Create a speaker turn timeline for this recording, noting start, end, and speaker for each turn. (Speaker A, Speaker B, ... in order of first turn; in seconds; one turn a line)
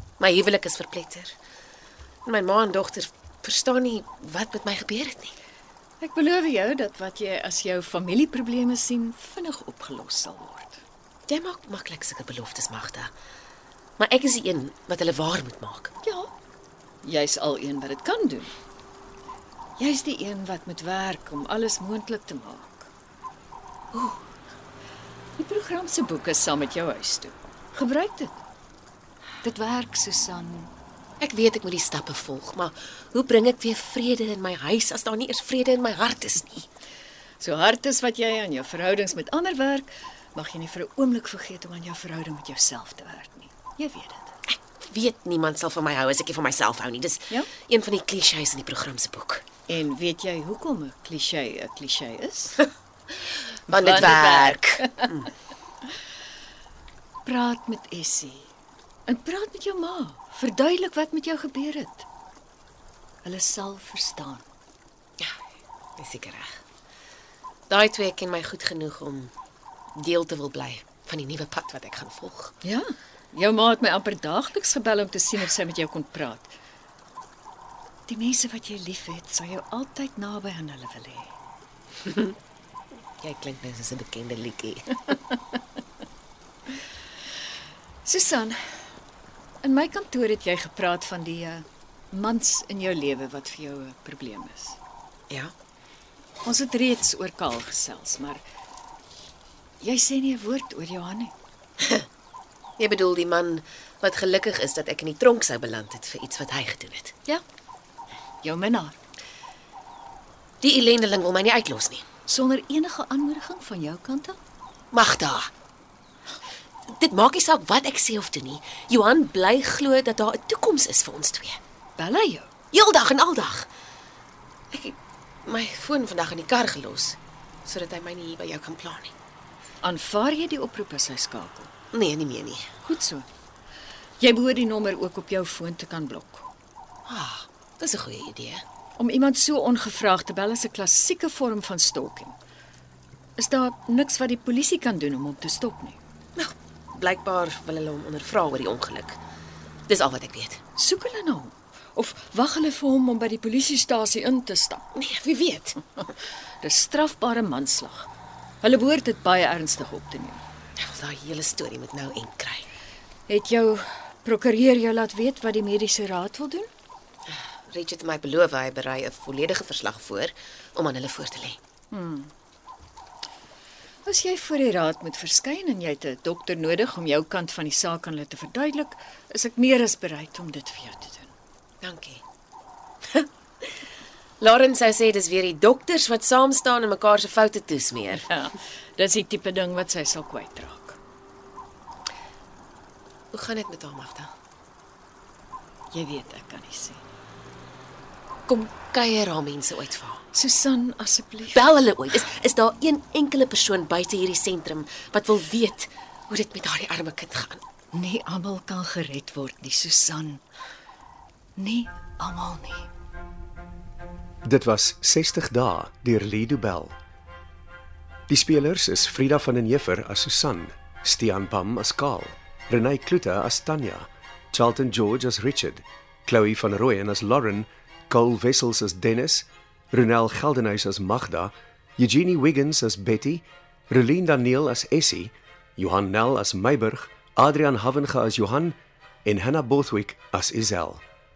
Speaker A: 0.2-1.3
Speaker A: 2.2-5.3
Speaker B: 6.0-10.8
Speaker A: 11.3-13.1
Speaker A: 14.0-15.9
Speaker B: 16.0-16.3
Speaker B: 17.0-18.6
Speaker B: 19.8-22.9
Speaker A: 23.9-24.2
Speaker B: 25.4-28.4
Speaker B: 29.4-30.7
Speaker A: 31.2-36.7
Speaker B: 37.4-44.3
Speaker A: 44.5-49.5
Speaker B: 49.7-52.7
Speaker B: 53.7-55.1
Speaker A: 53.7-55.3
Speaker B: 57.2-58.5
Speaker B: 59.1-62.1
Speaker B: 63.2-64.5
Speaker A: 66.0-66.6
Speaker A: 67.7-69.3
Speaker A: 70.0-72.5
Speaker B: 72.6-76.5
Speaker B: 78.1-81.3
Speaker A: 82.0-82.4
Speaker A: 83.2-85.0
Speaker B: 88.0-88.6
Speaker B: 89.6-94.8
Speaker B: 96.4-98.4
Speaker B: 99.8-101.3
Speaker A: 102.8-107.2
Speaker B: 108.4-109.0
Speaker A: 110.6-112.1
Speaker B: 112.2-114.4
Speaker A: 114.9-115.5
Speaker A: 116.9-121.6
Speaker B: 122.0-122.5
Speaker A: 122.7-123.7
Speaker A: 124.7-129.1
Speaker B: 129.8-131.7
Speaker A: 131.9-132.7
Speaker B: 132.8-133.3
Speaker B: 134.2-136.5
Speaker A: 137.1-138.6
Speaker B: 139.0-142.4
Speaker B: 143.4-146.0
Speaker A: 146.4-149.2
Speaker A: 149.9-150.6
Speaker B: 150.8-154.8
Speaker A: 154.9-155.8
Speaker B: 156.6-158.1
Speaker B: 158.6-160.4
Speaker A: 160.8-162.7
Speaker B: 163.3-166.7
Speaker A: 167.3-171.6
Speaker B: 171.9-172.3
Speaker B: 174.1-181.3
Speaker A: 181.8-182.2
Speaker A: 184.4-188.3
Speaker B: 188.2-191.0
Speaker A: 193.3-194.3
Speaker B: 195.9-197.0
Speaker A: 198.5-200.2
Speaker B: 200.3-201.6
Speaker A: 201.5-207.6
Speaker B: 207.9-210.4
Speaker B: 211.6-212.9
Speaker C: 214.4-217.0
Speaker C: 218.3-241.0